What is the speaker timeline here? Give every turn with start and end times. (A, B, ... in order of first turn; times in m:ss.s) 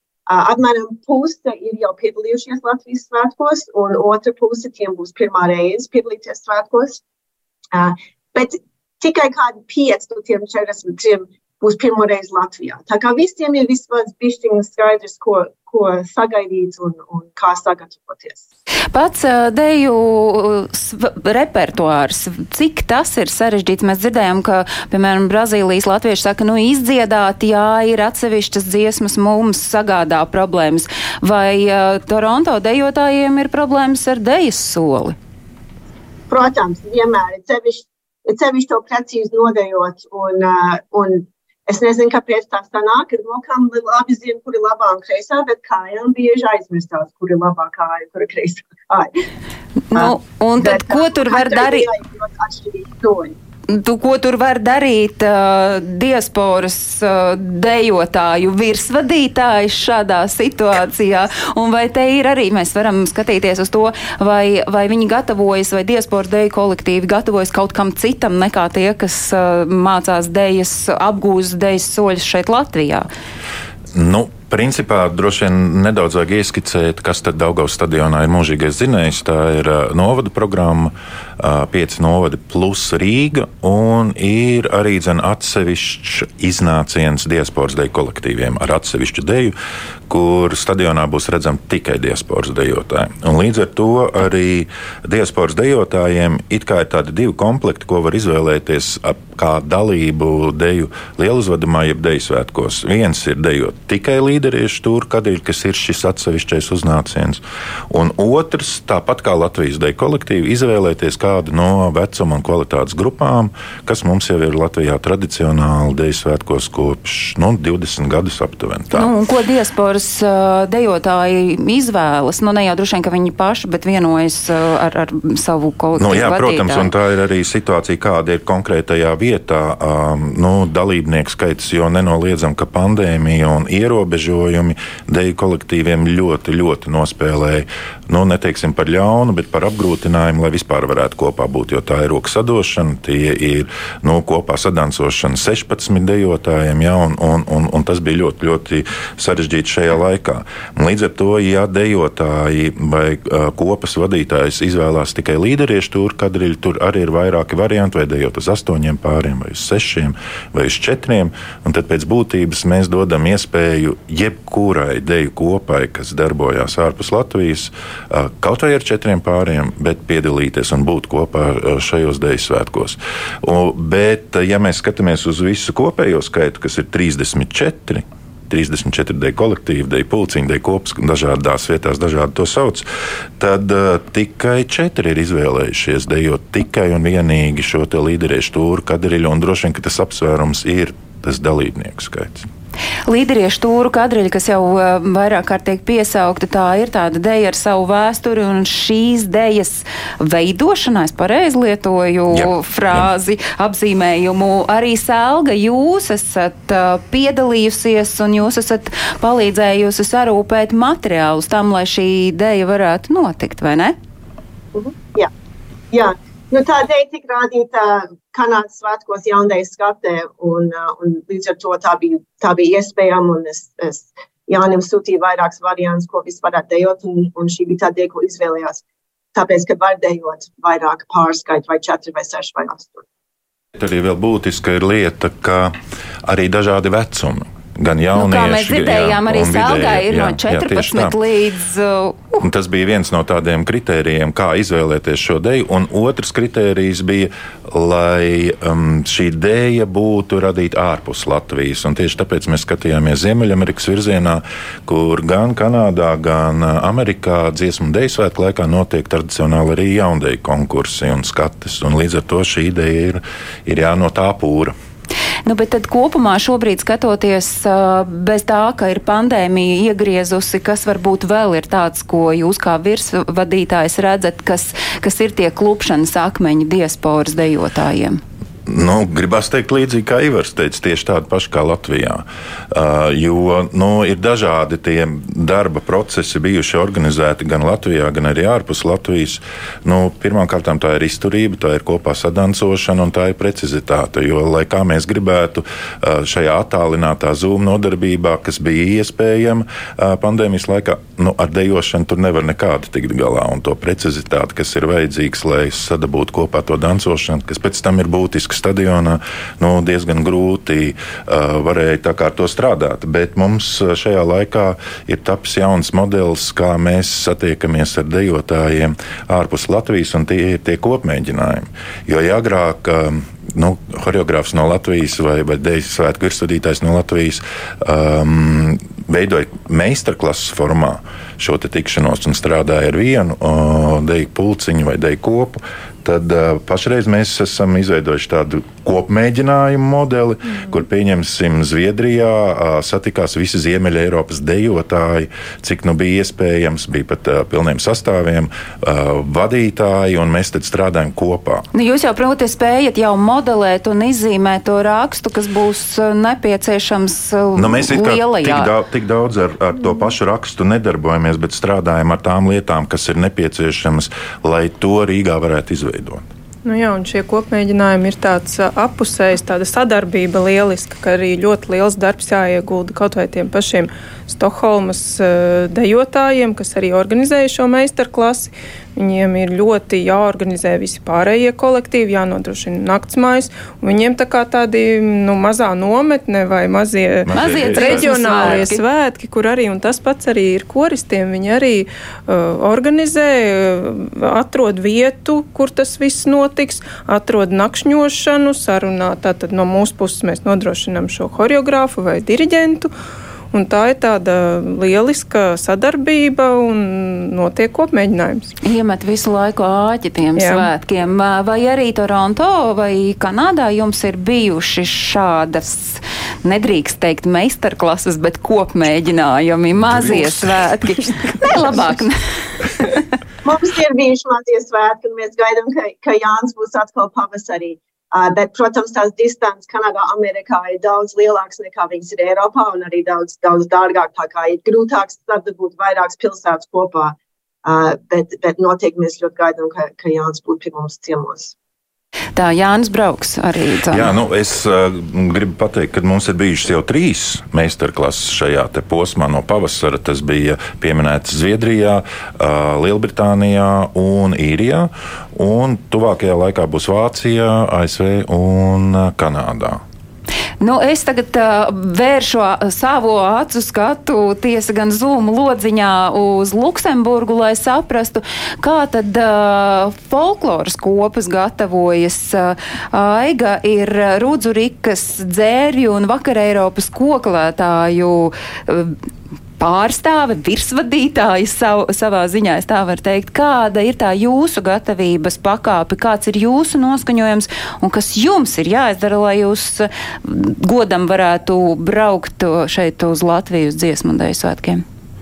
0:00.3-0:07.0 A
0:07.7-0:18.4 A
0:18.9-0:35.2 B
0:36.3-0:49.1 A
0:49.9-0:51.9 B
0:49.9-0:53.4 A
0:53.7-1:13.1 B
1:13.9-1:29.5 C
1:30.1-1:59.1 C
1:58.9-2:06.9 B
2:06.0-3:02.8 C
3:03.4-3:12.4 C
3:13.1-3:34.0 B
3:22.3-3:23.1 C
3:34.7-3:35.3 A
3:35.9-3:48.8 A
3:49.3-3:53.0 A
3:53.8-3:55.7 C
3:56.2-4:01.2 C
3:58.1-4:02.4 B
4:02.4-4:24.7 C
4:25.4-4:38.2 B
4:38.7-5:51.6 C
5:51.7-5:58.7 B
5:57.6-6:06.2 C
6:06.6-6:42.9 D
6:27.2-6:28.7 C
6:27.3-6:28.8 B
6:43.5-6:48.5 D
6:48.6-7:02.1 B
6:50.4-6:50.7 D
7:03.4-7:21.5 A
7:22.4-7:24.1 B
7:23.9-7:39.8 C
7:40.6-7:58.9 B
7:59.6-8:14.8 B